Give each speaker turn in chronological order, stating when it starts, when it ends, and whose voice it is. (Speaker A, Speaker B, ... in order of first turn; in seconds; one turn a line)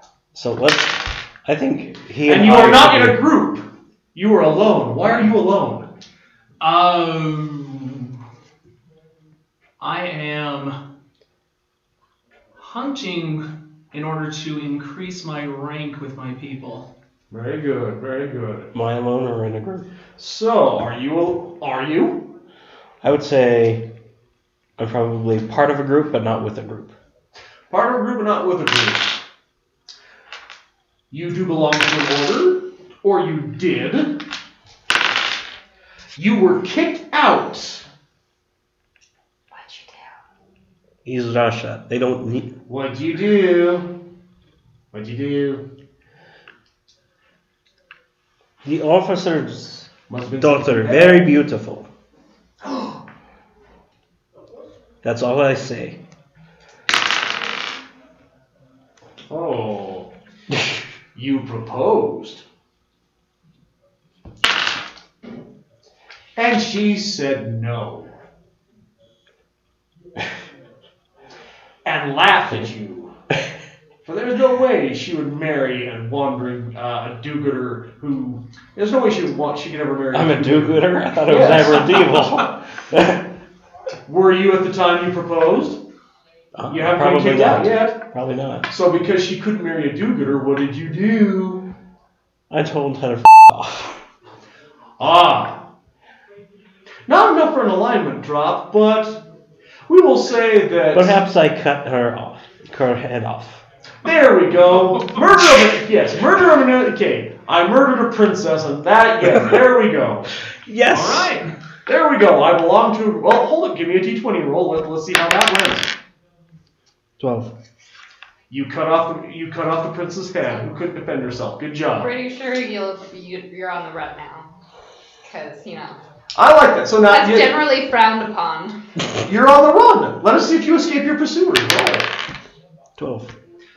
Speaker A: 0.3-3.2
Speaker B: 2.2-5.9
Speaker C: 6.6-8.1
Speaker C: 9.8-10.8
Speaker C: 12.6-16.9
Speaker B: 17.3-18.7
Speaker A: 18.7-19.9
Speaker B: 20.2-22.3
Speaker A: 23.0-23.8
Speaker A: 24.8-26.9
Speaker B: 27.7-29.2
Speaker B: 31.1-34.2
Speaker B: 36.1-37.8
Speaker D: 39.5-40.1
Speaker A: 41.0-42.5
Speaker B: 42.7-43.9
Speaker B: 44.9-45.6
Speaker A: 48.6-51.9
Speaker B: 50.1-51.3
Speaker B: 52.6-53.0
Speaker A: 55.0-56.0
Speaker B: 59.3-60.1
Speaker B: 61.1-62.4
Speaker B: 66.3-68.1
Speaker B: 71.8-73.1
Speaker B: 74.0-82.1
Speaker A: 80.1-83.2
Speaker B: 84.0-85.8
Speaker A: 86.5-88.7
Speaker B: 86.7-88.0
Speaker B: 88.7-91.6
Speaker A: 92.5-94.0
Speaker B: 95.0-95.6
Speaker B: 97.1-99.2
Speaker B: 99.9-101.2
Speaker A: 100.9-103.6
Speaker B: 104.0-110.3
Speaker A: 109.2-109.6
Speaker A: 110.6-111.3
Speaker C: 110.9-111.5
Speaker B: 111.9-115.9
Speaker A: 117.2-117.5
Speaker B: 118.5-122.1
Speaker D: 122.0-124.5
Speaker D: 125.2-126.0
Speaker B: 126.3-127.6
Speaker D: 127.1-128.8
Speaker B: 129.2-132.1
Speaker A: 133.0-133.3